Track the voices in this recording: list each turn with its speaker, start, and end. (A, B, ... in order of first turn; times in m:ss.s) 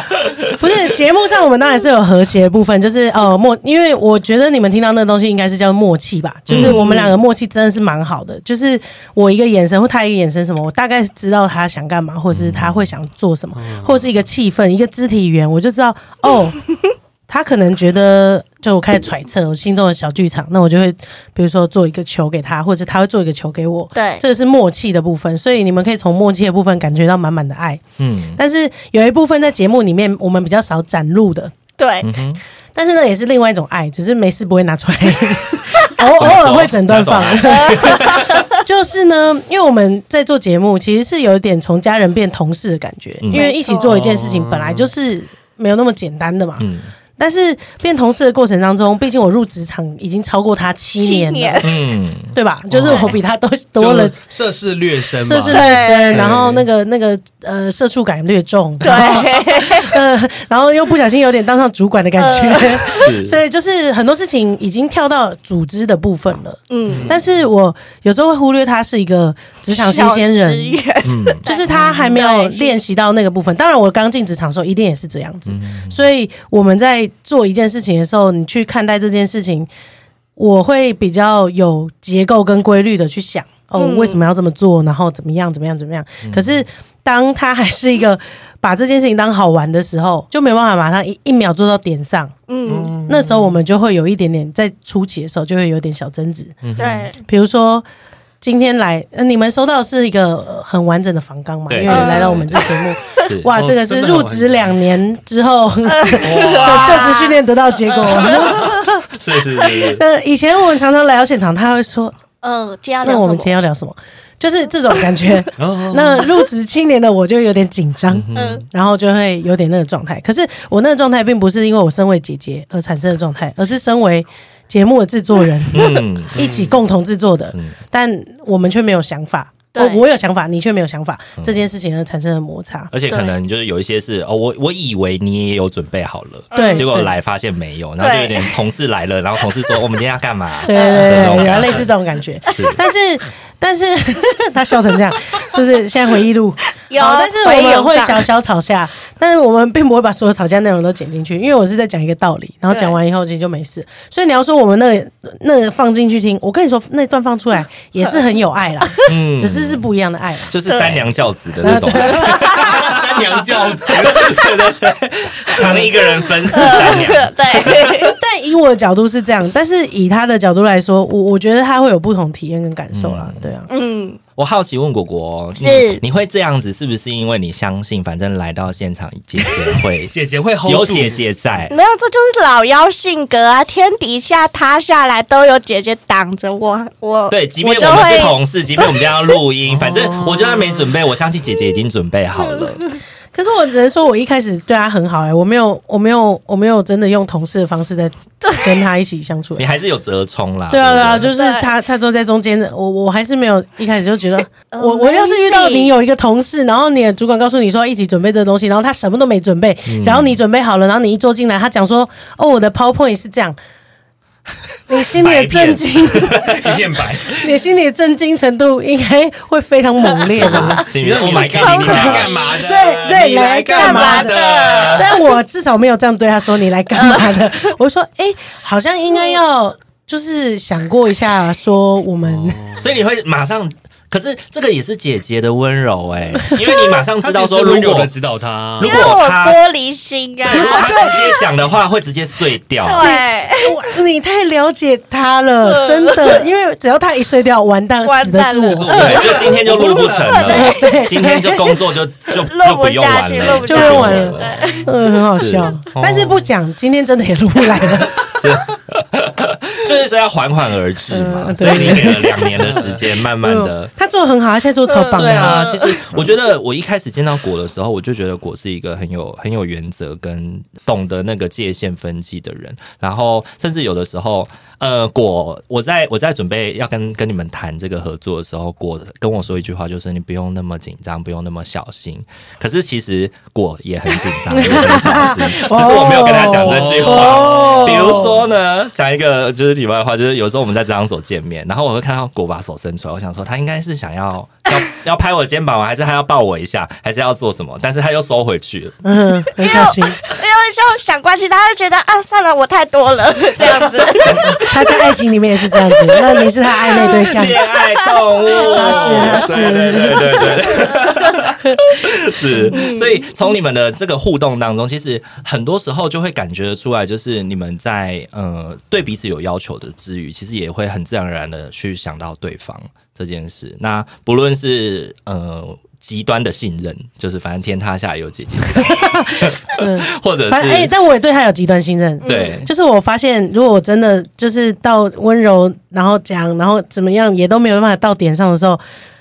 0:00.5-0:16.6 A
0:06.5-0:06.9 B
0:06.5-0:07.2 C
0:12.3-0:12.9 B
0:13.5-0:14.1 D
0:17.3-0:27.8 A
0:23.9-0:24.2 C
0:28.0-0:28.4 B
0:28.4-0:31.5 A
0:31.8-0:32.1 C
0:32.0-0:32.4 B
0:32.8-0:46.6 A
0:36.0-0:38.5 B
0:37.4-0:38.5 C
0:43.3-0:44.0 C
0:43.8-0:44.9 D
0:46.6-0:46.9 B
0:47.2-0:51.7 A
0:51.0-0:51.7 C
0:51.6-0:52.4 B
0:52.3-0:54.2 A
0:52.7-0:53.2 D
0:53.8-0:56.6 D
0:55.2-1:10.8 A
0:55.5-0:56.2 C
0:58.8-1:00.0 C
1:02.2-1:03.1 C
1:03.0-1:03.4 B
1:06.7-1:07.1 C
1:06.9-1:07.2 D
1:09.7-1:12.8 C
1:11.0-1:11.4 B
1:11.4-1:19.7 A
1:15.5-1:16.1 B
1:20.4-1:32.3 A
1:23.8-1:24.2 C
1:26.2-1:26.6 B
1:32.5-1:32.9 C
1:32.7-1:33.6 D
1:33.1-1:36.6 A
1:36.6-1:37.1 B
1:36.8-1:37.2 C
1:37.2-1:37.8 A
1:38.4-1:49.1 A
1:41.7-1:43.5 B
1:41.9-1:42.4 C
1:43.5-1:44.8 D
1:45.9-1:48.4 C
1:46.2-1:47.0 D
1:48.2-1:50.0 B
1:49.6-1:52.1 A
1:52.4-1:53.5 C
1:53.0-2:12.9 A
1:55.6-1:56.3 D
1:58.1-1:58.6 B
1:58.4-1:58.6 C
2:05.7-2:06.5 B
2:06.4-2:06.8 D
2:09.8-2:10.0 C
2:11.4-2:11.6 B
2:12.9-2:21.9 B
2:13.1-2:13.4 C
2:16.5-2:16.9 C
2:16.5-2:17.1 A
2:18.0-2:18.6 C
2:20.6-2:40.6 A
2:20.7-2:21.6 C
2:22.5-2:22.8 B
2:26.9-2:28.3 C
2:32.7-2:33.0 C
2:39.0-2:39.9 B
2:40.5-2:48.1 B
2:40.7-2:41.0 C
2:41.6-2:42.6 A
2:42.2-2:42.7 C
2:42.4-2:44.7 D
2:45.5-2:45.9 D
2:46.5-2:48.1 C
2:48.0-2:53.7 A
2:52.9-2:53.5 B
2:53.7-2:54.2 C
2:54.4-3:01.7 B
2:55.6-2:56.0 C
3:00.1-3:01.2 D
3:01.7-3:09.4 C
3:07.3-3:12.8 B
3:09.6-3:10.9 D
3:12.6-3:13.0 C
3:13.3-3:19.6 A
3:18.4-3:18.7 C
3:19.6-3:21.3 B
3:20.7-3:33.6 A
3:21.3-3:21.7 C
3:24.7-3:25.9 C
3:29.9-3:30.4 B
3:34.9-3:36.4 A
3:35.1-3:36.8 B
3:36.3-3:37.4 D
3:37.4-3:40.8 A
3:40.4-3:42.4 B
3:40.4-3:42.6 C
3:40.8-3:45.1 D
3:42.6-3:52.6 A
3:43.7-3:45.2 C
3:46.9-3:47.4 C
3:49.1-3:49.4 C
3:52.2-3:52.9 D
3:52.8-3:58.1 B
3:57.2-3:59.0 D
3:58.8-3:59.6 B
3:58.8-4:01.4 C
4:00.4-4:03.0 B
4:02.8-4:03.9 C
4:03.0-4:09.1 A
4:05.7-4:06.4 C
4:08.0-4:10.9 C
4:08.8-4:10.6 D
4:09.0-4:14.4 B
4:10.5-4:11.7 A
4:12.3-4:14.8 C
4:13.6-4:18.2 A
4:13.8-4:15.0 D
4:15.4-4:16.5 B
4:18.0-4:23.9 B
4:21.1-4:22.8 A
4:22.6-4:23.0 D
4:23.4-4:25.7 A
4:24.9-4:25.9 C
4:25.2-4:59.0 B
4:44.5-4:48.4 A
4:45.8-4:48.3 D
4:59.0-5:00.2 A
4:59.6-5:04.9 C
5:04.2-5:04.5 B
5:04.3-5:07.6 A
5:05.7-5:06.4 C
5:07.0-5:30.9 B
5:07.7-5:09.4 C
5:08.7-5:10.5 A
5:09.1-5:10.0 D
5:11.6-5:12.0 A
5:12.7-5:13.3 C
5:28.8-5:38.8 A
5:32.2-5:32.6 C
5:32.2-5:32.7 B